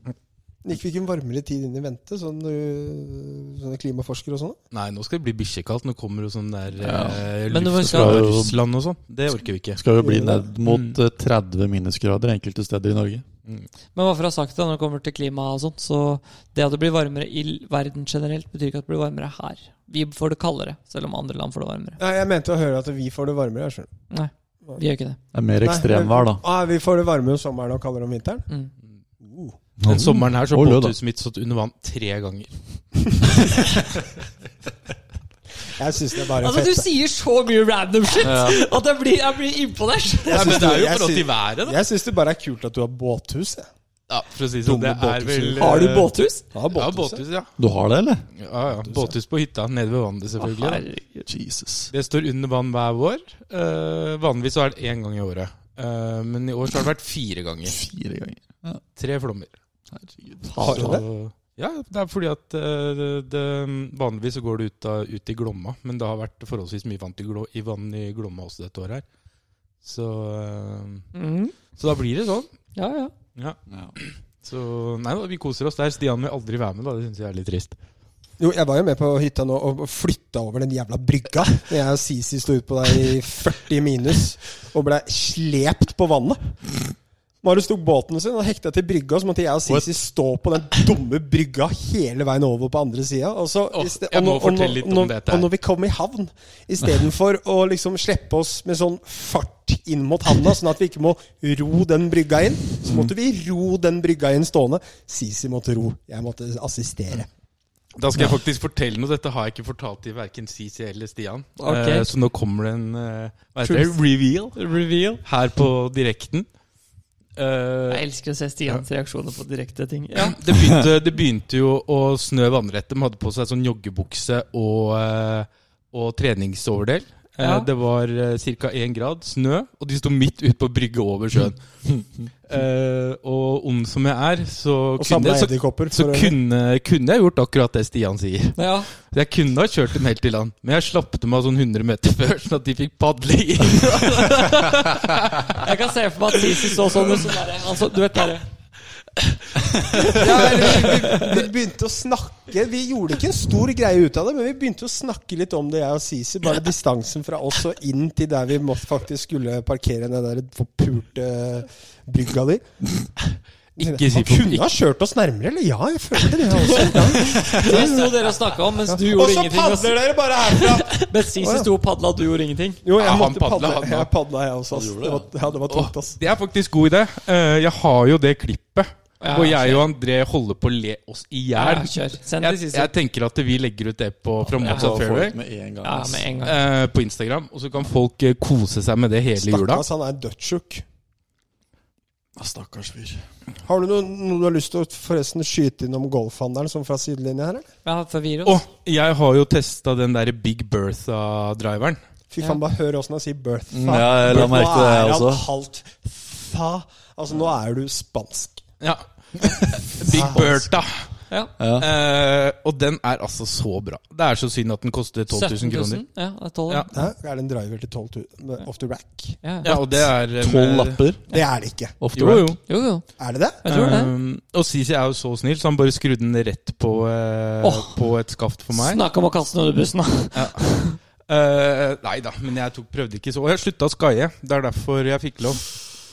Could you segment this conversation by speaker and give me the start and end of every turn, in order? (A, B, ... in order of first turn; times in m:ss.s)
0:00.6-0:04.6 A
0:04.7-0:09.8 B
0:06.8-0:08.6 C
0:07.5-0:08.2 D
0:09.7-0:13.2 C
0:10.0-0:10.5 A
0:10.6-0:11.0 B
0:13.9-0:22.0 D
0:22.0-0:23.9 A
0:24.1-0:25.2 D
0:25.3-0:26.4 C
0:25.6-0:28.5 A
0:29.2-0:29.6 A
0:29.8-0:30.9 C
0:29.8-0:32.5 B
0:33.4-0:33.8 B
0:35.6-0:36.8 A
0:36.4-0:40.7 D
0:38.2-0:38.6 C
0:40.3-0:43.7 A
0:40.3-0:41.8 B
0:44.1-0:46.1 B
0:44.6-0:45.8 A
0:45.6-0:46.4 D
0:46.5-0:47.2 A
0:46.7-0:47.5 B
0:47.6-0:48.2 C
0:48.4-0:50.8 B
0:50.4-0:51.3 D
0:51.3-0:51.9 C
0:51.9-0:57.8 B
0:57.7-0:58.8 C
0:59.0-0:59.5 B
0:59.9-1:00.8 C
1:00.5-1:01.0 D
1:00.6-1:09.0 B
1:00.6-1:01.0 A
1:09.8-1:11.0 B
1:11.1-1:11.5 D
1:11.7-1:12.5 B
1:12.7-1:13.1 D
1:13.4-1:17.8 B
1:13.7-1:13.9 C
1:18.4-1:26.4 A
1:27.4-1:47.3 A
1:29.6-1:29.9 C
1:33.7-1:35.5 B
1:48.0-1:54.6 B
1:51.6-1:52.1 D
1:53.6-1:54.0 D
1:54.5-1:55.2 D
1:55.2-1:56.5 B
1:57.4-1:58.0 B
1:57.9-2:00.4 D
2:00.2-2:25.7 B
2:00.6-2:00.8 C
2:07.4-2:07.7 D
2:15.0-2:16.3 A
2:18.6-2:18.9 D
2:25.5-2:28.4 D
2:26.5-2:27.2 B
2:29.9-2:31.3 D
2:30.0-2:43.0 A
2:43.8-2:44.7 B
2:43.8-2:48.1 A
2:46.8-2:52.8 D
2:47.3-2:48.0 B
2:48.8-2:51.7 A
2:52.8-2:56.2 A
2:53.0-2:54.1 B
2:54.7-2:55.3 C
2:55.7-3:05.4 B
2:59.2-2:59.8 D
3:01.5-3:02.9 D
3:04.5-3:04.9 D
3:04.6-3:06.3 C
3:05.8-3:06.6 D
3:06.4-3:09.8 B
3:09.4-3:10.8 A
3:12.4-3:13.2 C
3:13.6-3:17.7 A
3:17.8-3:18.6 D
3:18.4-3:22.0 B
3:22.3-3:28.6 A
3:23.7-3:25.5 C
3:28.8-3:31.0 B
3:30.0-3:30.7 A
3:31.6-3:31.9 C
3:31.8-3:36.0 B
3:35.3-3:36.9 D
3:36.9-3:39.4 A
3:39.4-3:39.7 D
3:39.6-3:41.0 B
3:39.7-3:41.2 C
3:41.3-3:41.9 A
3:42.0-3:42.6 C
3:42.1-3:42.6 B
3:42.7-3:43.1 D
3:43.2-3:43.6 A
3:43.6-3:44.1 D
3:43.6-3:49.0 B
3:47.6-3:47.9 D
3:48.7-3:51.0 D
3:50.3-3:50.6 B
3:51.3-3:55.7 B